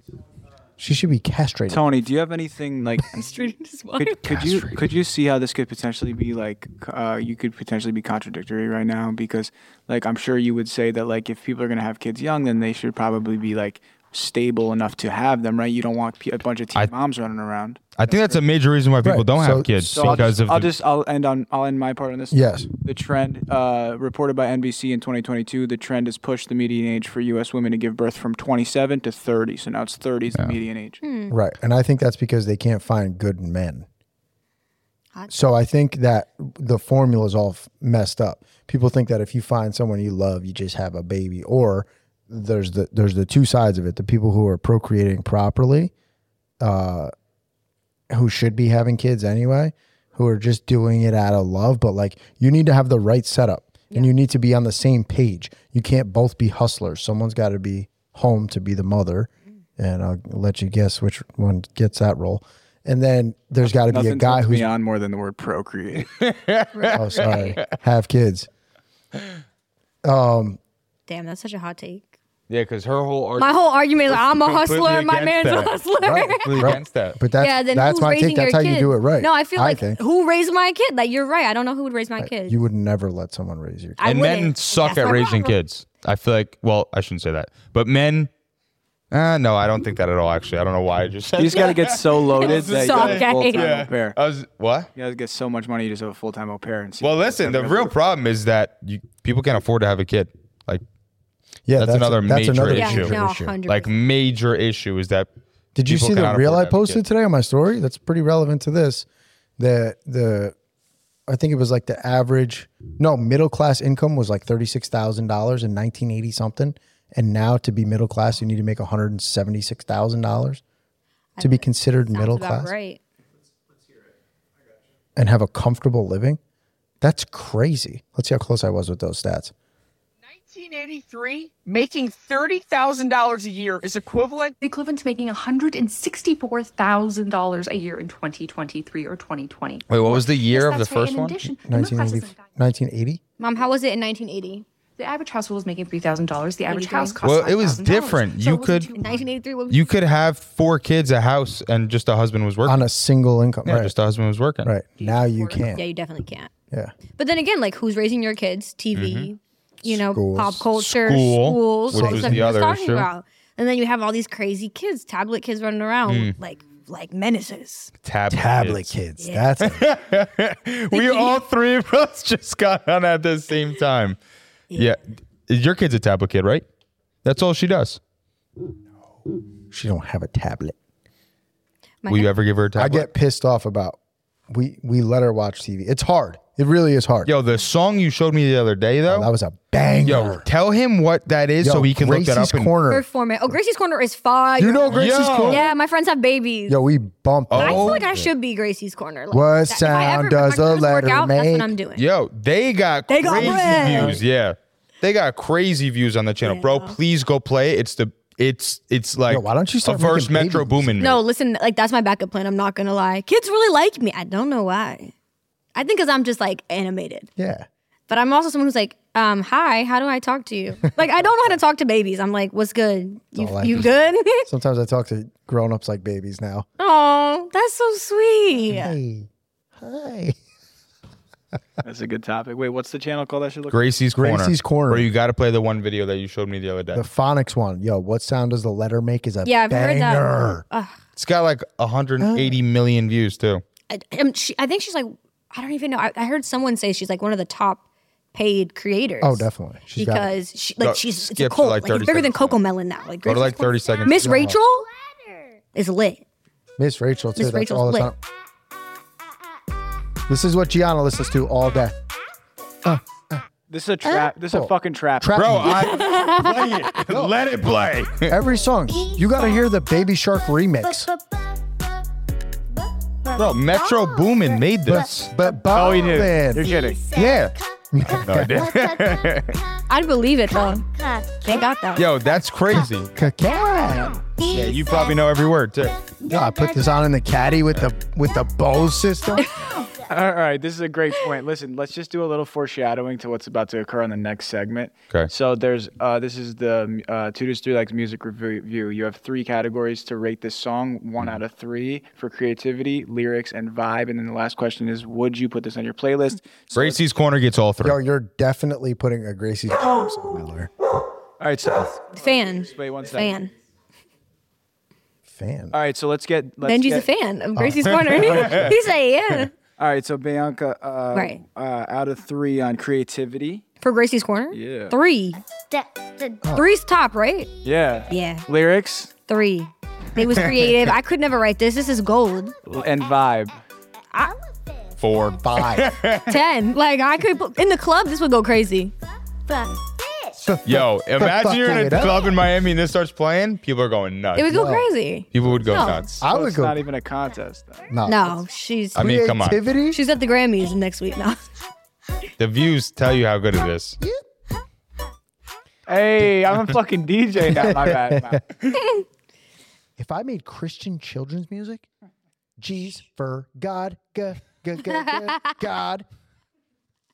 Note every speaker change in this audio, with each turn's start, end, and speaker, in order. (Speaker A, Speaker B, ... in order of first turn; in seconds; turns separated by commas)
Speaker A: 0.8-1.8, Speaker B: 1.7-18.4, Speaker C: 3.2-4.2, Speaker D: 4.3-4.8, Speaker D: 17.9-20.7, Speaker A: 19.0-20.4, Speaker B: 19.9-31.0, Speaker A: 22.3-22.7, Speaker C: 31.0-31.4, Speaker A: 31.3-33.9, Speaker C: 35.1-35.5, Speaker A: 35.3-45.9, Speaker A: 46.6-47.1, Speaker A: 48.1-64.7, Speaker B: 63.6-66.1, Speaker D: 66.2-67.7, Speaker C: 66.7-67.6, Speaker A: 67.0-68.5, Speaker A: 70.0-70.6, Speaker C: 71.1-72.1, Speaker D: 72.5-73.6, Speaker C: 73.4-76.8, Speaker D: 74.1-75.8, Speaker A: 76.0-80.0, Speaker D: 76.4-77.2, Speaker C: 77.4-82.6, Speaker A: 82.2-84.0, Speaker C: 84.0-85.6, Speaker D: 84.0-88.3, Speaker D: 89.1-94.9, Speaker B: 91.4-94.2, Speaker C: 92.4-93.6, Speaker B: 95.0-98.0, Speaker D: 97.0-100.8, Speaker A: 101.7-103.6, Speaker D: 101.8-105.3, Speaker C: 102.7-103.9, Speaker A: 105.8-109.1, Speaker D: 105.8-107.0, Speaker A: 109.6-110.5, Speaker A: 111.3-120.6, Speaker C: 121.4-123.0, Speaker A: 121.4-122.7, Speaker A: 125.2-126.4, Speaker A: 127.0-129.5, Speaker E: 130.7-131.5, Speaker E: 132.2-132.8, Speaker E: 133.6-134.5, Speaker F: 134.6-142.5, Speaker D: 139.9-141.5, Speaker A: 141.6-143.2, Speaker C: 143.4-144.7, Speaker F: 145.0-149.2, Speaker C: 146.7-147.2, Speaker D: 147.2-148.9, Speaker C: 149.0-149.8, Speaker D: 149.7-152.9, Speaker A: 152.7-153.9, Speaker D: 153.7-154.7, Speaker A: 154.6-155.8, Speaker F: 155.1-155.5, Speaker C: 155.7-156.5, Speaker C: 157.2-167.9, Speaker D: 158.9-159.3, Speaker A: 159.8-160.7, Speaker D: 160.8-163.1, Speaker A: 161.9-162.5, Speaker D: 166.1-166.3, Speaker D: 168.0-169.0, Speaker A: 168.3-169.8, Speaker C: 169.2-169.5, Speaker D: 169.6-174.2, Speaker C: 170.9-171.4, Speaker D: 174.8-176.7, Speaker D: 177.2-178.0, Speaker A: 179.7-180.8, Speaker C: 182.0-182.3, Speaker D: 182.1-183.1, Speaker A: 182.8-184.0, Speaker A: 184.5-187.3, Speaker D: 187.3-189.3, Speaker A: 189.1-190.4, Speaker D: 190.0-192.7, Speaker A: 191.6-193.6, Speaker C: 192.9-196.8, Speaker A: 194.6-195.7, Speaker D: 194.9-195.7, Speaker A: 196.7-198.3, Speaker D: 197.5-198.1, Speaker C: 197.6-202.0, Speaker A: 199.3-201.7, Speaker D: 201.9-211.2, Speaker C: 203.1-204.2, Speaker A: 203.3-204.2, Speaker C: 206.4-207.0, Speaker A: 209.3-211.0, Speaker C: 211.0-215.1, Speaker C: 215.8-217.3, Speaker A: 217.4-217.7, Speaker C: 218.1-224.5, Speaker A: 223.3-226.7, Speaker C: 226.8-229.0, Speaker A: 228.7-229.3, Speaker A: 229.8-230.4, Speaker B: 231.8-233.8, Speaker D: 233.7-237.0, Speaker A: 234.2-235.1, Speaker A: 236.9-240.7, Speaker C: 239.4-241.0, Speaker D: 241.2-243.6, Speaker A: 242.2-242.6, Speaker C: 243.9-247.8, Speaker C: 248.3-254.9, Speaker A: 249.2-250.4, Speaker D: 250.8-252.6, Speaker D: 253.2-254.3, Speaker A: 254.1-254.6, Speaker C: 255.7-256.2, Speaker A: 256.8-258.2, Speaker C: 257.4-258.1, Speaker A: 260.3-261.9, Speaker A: 262.8-263.4, Speaker B: 263.7-265.4, Speaker A: 264.0-265.9, Speaker D: 265.3-268.4, Speaker C: 265.6-267.0, Speaker A: 267.1-267.4, Speaker A: 268.3-271.1, Speaker D: 273.3-275.3, Speaker A: 274.9-276.7, Speaker B: 275.4-277.1, Speaker D: 277.1-277.6, Speaker A: 277.9-278.7, Speaker D: 278.1-279.7, Speaker C: 279.9-280.9, Speaker C: 281.4-282.1, Speaker D: 281.9-283.1, Speaker A: 283.1-284.3, Speaker D: 284.4-286.0, Speaker A: 286.2-289.5, Speaker C: 289.4-289.7, Speaker B: 290.1-307.0, Speaker D: 306.7-308.0, Speaker A: 307.8-310.7, Speaker B: 311.4-313.4, Speaker C: 312.1-313.5, Speaker A: 315.3-315.8, Speaker B: 315.7-317.1, Speaker C: 316.6-319.5, Speaker A: 317.6-318.7, Speaker D: 317.9-318.7, Speaker B: 318.2-318.7, Speaker B: 319.8-323.6, Speaker C: 321.1-321.4, Speaker C: 323.8-325.4, Speaker B: 324.5-325.0, Speaker C: 326.4-327.5, Speaker B: 327.6-329.1, Speaker C: 328.1-328.5, Speaker C: 329.3-332.6, Speaker B: 332.7-333.6, Speaker D: 335.0-336.4, Speaker A: 335.4-336.0, Speaker C: 336.3-338.9, Speaker A: 340.4-342.3, Speaker D: 340.6-344.5, Speaker C: 344.4-346.2, Speaker A: 344.5-344.9, Speaker D: 345.3-346.2, Speaker A: 346.2-346.8, Speaker B: 346.2-347.9, Speaker A: 347.9-350.0, Speaker C: 348.1-349.0, Speaker D: 348.9-349.6, Speaker C: 349.9-351.4, Speaker D: 352.4-354.0, Speaker B: 355.9-358.4, Speaker A: 357.6-358.4, Speaker A: 360.0-361.9, Speaker A: 362.6-366.1